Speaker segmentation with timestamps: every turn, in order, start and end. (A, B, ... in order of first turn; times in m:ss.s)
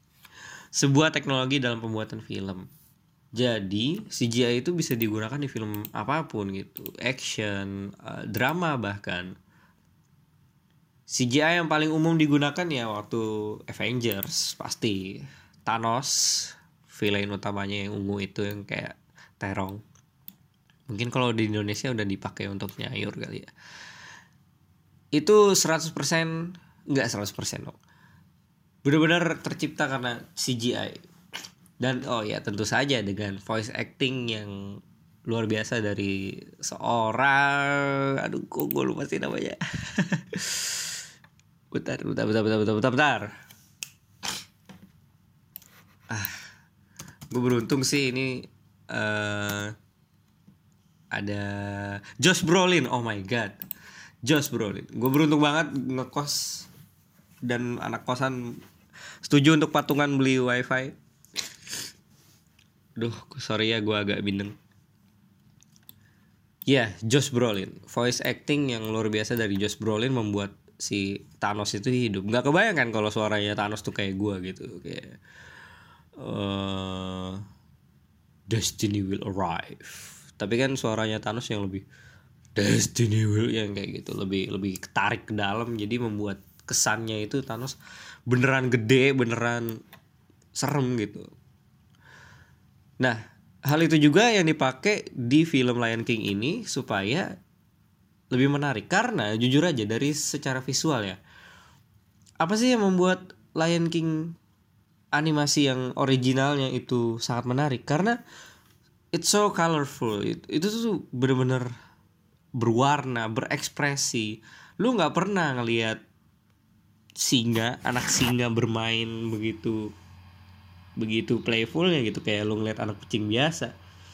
0:00.8-0:02.7 A
0:03.4-0:09.3 A
0:11.1-0:19.8 A
0:20.9-0:23.5 A
0:25.2-0:27.8 A
0:28.8-0:31.0 A
0:31.8-0:34.6 A
0:35.3-0:40.9 A
0:41.7-0:43.3 A
0:46.1-0:46.4 A
0:47.3-0:49.7 A
0:51.1-0:53.6 A
0:54.2-0:56.7 A
0:57.5-0:58.4 A
0:59.2-1:00.9 A
1:03.0-1:04.6 A
1:06.7-1:15.1 A
1:16.2-1:17.4 A
1:18.5-1:21.8 A
1:22.6-1:27.8 A
1:28.3-1:29.7 A
1:30.6-1:31.3 A
1:33.0-1:37.3 A
1:38.3-1:41.2 A
1:42.4-1:44.3 A
1:45.2-1:48.2 A
1:49.1-1:51.7 A
1:52.6-1:56.0 A
1:57.2-1:59.8 A
2:01.0-2:03.7 A